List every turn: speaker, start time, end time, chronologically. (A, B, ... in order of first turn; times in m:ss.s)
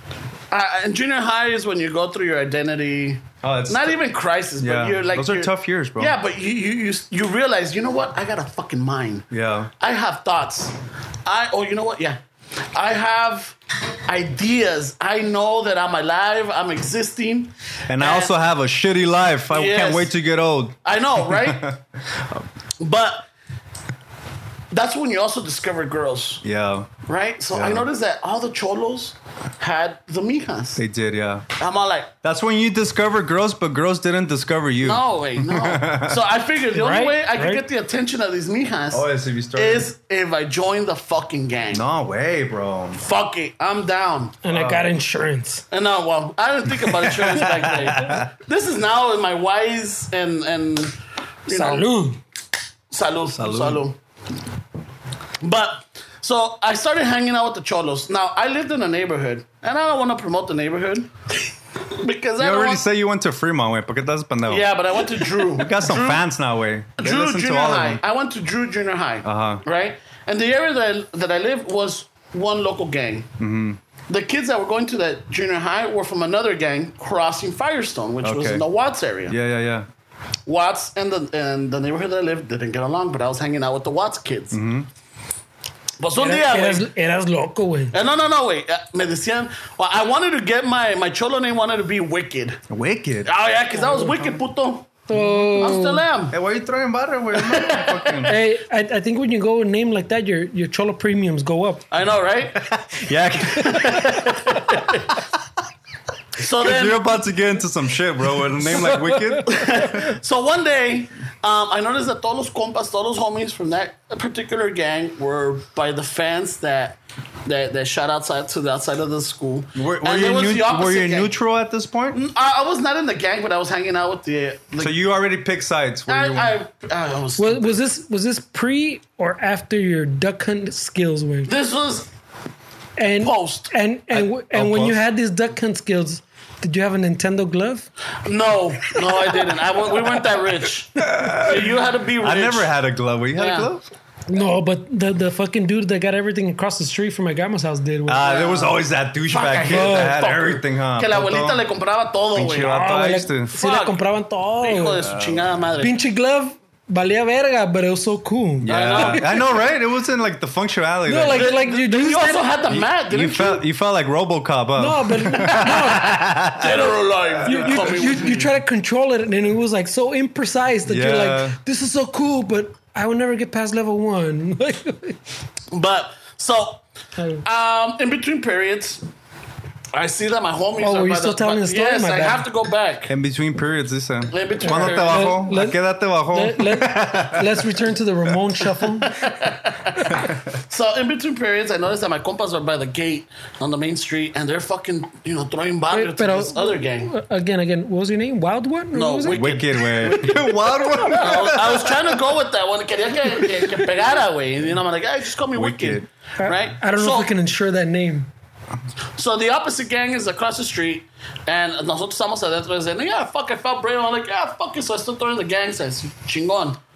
0:00.5-0:09.3 A
0:03.4-0:04.0 B
0:04.6-0:06.1 B
0:09.3-0:09.7 B
0:09.8-0:12.2 A
0:12.7-0:18.3 A
0:17.9-0:22.4 B
0:19.5-0:20.1 A
0:20.8-0:21.7 A
0:22.8-0:23.3 A
0:24.7-0:26.4 A
0:26.4-0:26.9 B
0:27.0-0:30.8 A
0:27.5-0:27.8 B
0:30.8-0:31.4 B
0:31.6-0:32.1 A
0:32.2-0:36.2 B
0:34.8-0:41.8 A
0:36.7-0:37.6 C
0:38.9-0:39.9 B
0:41.7-0:43.0 B
0:43.0-0:44.4 A
0:44.4-0:45.6 C
0:44.5-0:44.9 B
0:45.7-0:51.0 A
0:46.8-0:48.3 B
0:51.5-0:51.8 A
0:51.5-0:52.2 C
0:52.9-0:54.0 A
0:53.4-0:53.8 B
0:55.4-1:01.1 A
1:02.0-1:02.8 A
1:02.4-1:04.7 B
1:04.5-1:06.2 A
1:05.5-1:08.0 B
1:07.0-1:13.3 A
1:09.2-1:09.6 B
1:13.4-1:13.8 B
1:14.1-1:19.4 A
1:18.2-1:18.6 B
1:19.3-1:19.9 B
1:20.5-1:24.6 A
1:24.5-1:24.9 B
1:26.0-1:26.9 A
1:26.2-1:28.0 C
1:27.9-1:32.6 A
1:32.7-1:33.3 B
1:33.2-1:36.3 A
1:33.8-1:34.1 C
1:34.0-1:34.4 B
1:35.1-1:36.0 C
1:36.3-1:38.4 B
1:37.3-1:38.3 A
1:38.2-1:41.8 C
1:41.9-1:42.7 A
1:42.6-1:44.3 B
1:43.4-1:45.1 A
1:46.4-1:47.0 A
1:46.6-1:50.0 B
1:48.7-1:49.9 C
1:49.4-2:01.3 A
1:59.8-2:02.2 B
2:02.1-2:04.9 A
2:04.8-2:06.5 B
2:06.1-2:07.8 A
2:07.4-2:11.5 C
2:11.5-2:12.1 A
2:13.0-2:17.9 C
2:13.2-2:13.7 A
2:14.1-2:15.0 B
2:18.2-2:22.7 A
2:21.0-2:21.7 B
2:22.2-2:23.8 B
2:23.4-2:23.7 A
2:24.3-2:28.5 C
2:28.1-2:31.6 B
2:28.2-2:28.7 A
2:29.3-2:32.8 A
2:29.6-2:30.2 C
2:32.3-2:33.5 B
2:32.6-2:35.0 C
2:33.6-2:34.0 A
2:34.6-2:36.0 A
2:35.0-2:35.5 B
2:35.8-2:39.4 C
2:38.6-2:41.5 B
2:38.7-2:39.4 A
2:41.1-2:42.5 C
2:41.3-2:43.6 A
2:42.7-2:47.9 B
2:44.8-2:46.2 C
2:46.6-2:48.5 A
2:47.4-2:55.2 C
2:50.8-2:51.6 B
2:55.7-2:56.8 A
2:57.2-2:57.4 C
2:57.4-2:59.0 A
2:59.9-3:03.1 A
3:00.8-3:02.4 C
3:03.1-3:07.8 B
3:04.3-3:05.4 A
3:04.6-3:05.8 C
3:06.3-3:09.3 C
3:09.1-3:17.1 A
3:15.9-3:19.5 C
3:18.9-3:27.3 A
3:19.3-3:22.2 B
3:25.5-3:26.1 B
3:26.4-3:28.3 C
3:29.2-3:36.8 A